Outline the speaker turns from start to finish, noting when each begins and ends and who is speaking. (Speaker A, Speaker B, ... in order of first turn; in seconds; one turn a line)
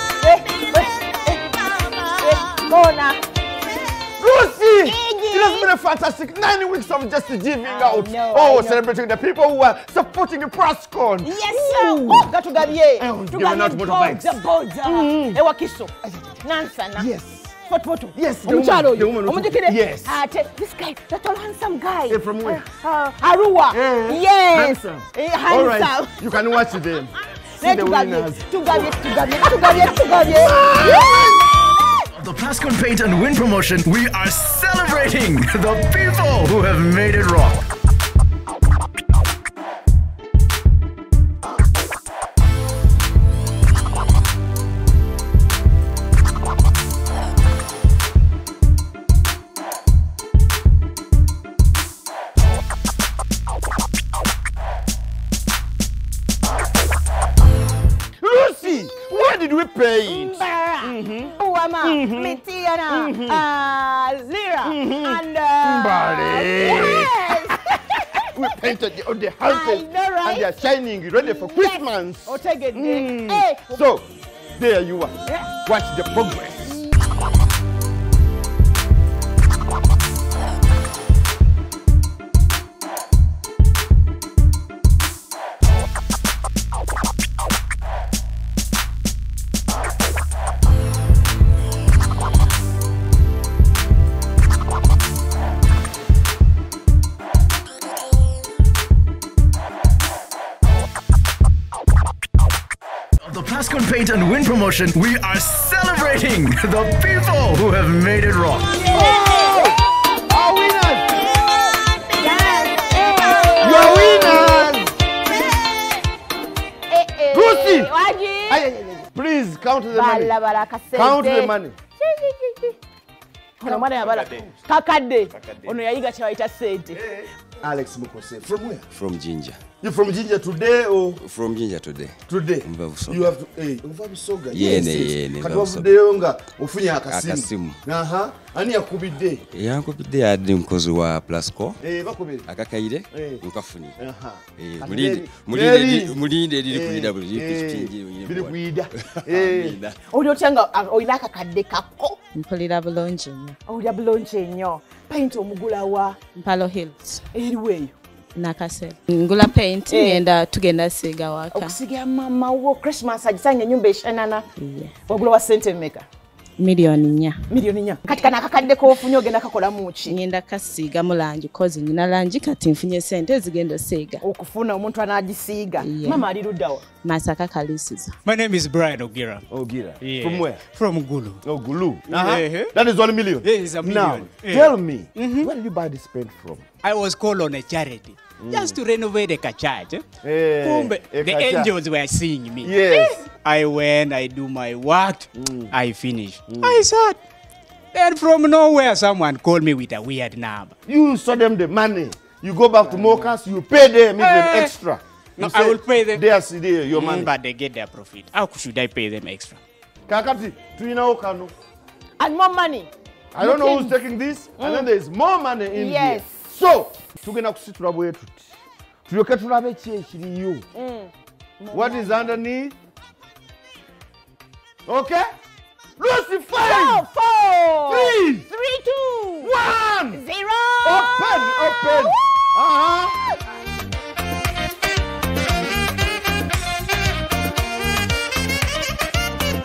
Speaker A: 0.2-3.2
Speaker B: 4.2-15.4
Speaker A: 4.8-5.7
Speaker A: 7.7-8.8
Speaker A: 11.2-17.1
Speaker B: 16.9-17.5
Speaker A: 17.6-26.2
Speaker B: 18.1-20.1
Speaker B: 22.1-22.7
Speaker B: 23.7-28.5
Speaker A: 27.6-32.1
Speaker B: 30.3-31.4
Speaker C: 32.1-37.6
Speaker B: 58.2-63.4
Speaker A: 58.6-59.1
Speaker A: 60.0-68.8
Speaker B: 64.6-67.5
Speaker B: 68.3-76.8
Speaker A: 69.4-70.5
Speaker A: 71.2-73.8
Speaker A: 75.3-75.5
Speaker C: 103.2-108.7
Speaker A: 108.8-109.8
Speaker B: 108.9-111.0
Speaker A: 112.1-114.7
Speaker B: 113.6-114.9
Speaker A: 116.9-118.7
Speaker B: 117.3-117.9
Speaker B: 118.5-120.3
Speaker A: 119.9-122.8
Speaker B: 120.9-121.8
Speaker A: 123.6-127.0
Speaker B: 123.6-124.4
Speaker B: 126.9-128.9
Speaker D: 128.9-129.6
Speaker B: 129.8-131.2
Speaker D: 131.2-133.3
Speaker B: 132.3-139.4
Speaker D: 134.5-135.9
Speaker D: 137.1-137.8
Speaker D: 139.5-141.8
Speaker B: 141.8-142.5
Speaker D: 142.5-144.0
Speaker B: 143.1-143.4
Speaker B: 144.0-149.8
Speaker D: 144.6-148.6
Speaker D: 149.2-149.9
Speaker A: 150.1-152.2
Speaker E: 152.3-153.6
Speaker A: 153.7-156.2
Speaker E: 156.3-157.2
Speaker A: 157.3-157.9
Speaker E: 158.3-161.8
Speaker A: 159.9-160.2
Speaker A: 161.5-164.5
Speaker E: 164.6-164.9
Speaker A: 165.1-166.1
Speaker E: 166.6-167.4
Speaker A: 167.5-170.2
Speaker E: 170.0-174.2
Speaker A: 174.2-176.9
Speaker E: 175.8-176.3
Speaker E: 177.0-178.2
Speaker F: 178.2-179.4
Speaker B: 179.5-180.6
Speaker F: 180.0-181.4
Speaker B: 181.4-186.6
Speaker F: 182.1-182.7
Speaker F: 183.4-185.5
Speaker F: 186.8-190.0
Speaker B: 188.4-188.8
Speaker B: 190.2-191.7
Speaker F: 190.6-197.2
Speaker B: 192.6-193.2
Speaker B: 195.3-195.7
Speaker B: 196.5-196.8
Speaker F: 197.9-200.7
Speaker B: 200.8-207.3
Speaker F: 204.2-204.7
Speaker F: 205.4-206.2
Speaker F: 206.9-209.6
Speaker B: 210.1-211.5
Speaker A: 212.2-214.0
Speaker B: 213.3-218.5
Speaker A: 214.6-214.9
Speaker A: 215.7-216.3
Speaker B: 219.1-220.6
Speaker A: 220.7-222.3
Speaker B: 221.7-222.8
Speaker B: 224.8-225.3
Speaker B: 226.0-227.1
Speaker A: 226.6-229.5
Speaker B: 227.9-228.5
Speaker B: 229.4-230.2
Speaker A: 230.1-232.2
Speaker B: 230.8-233.2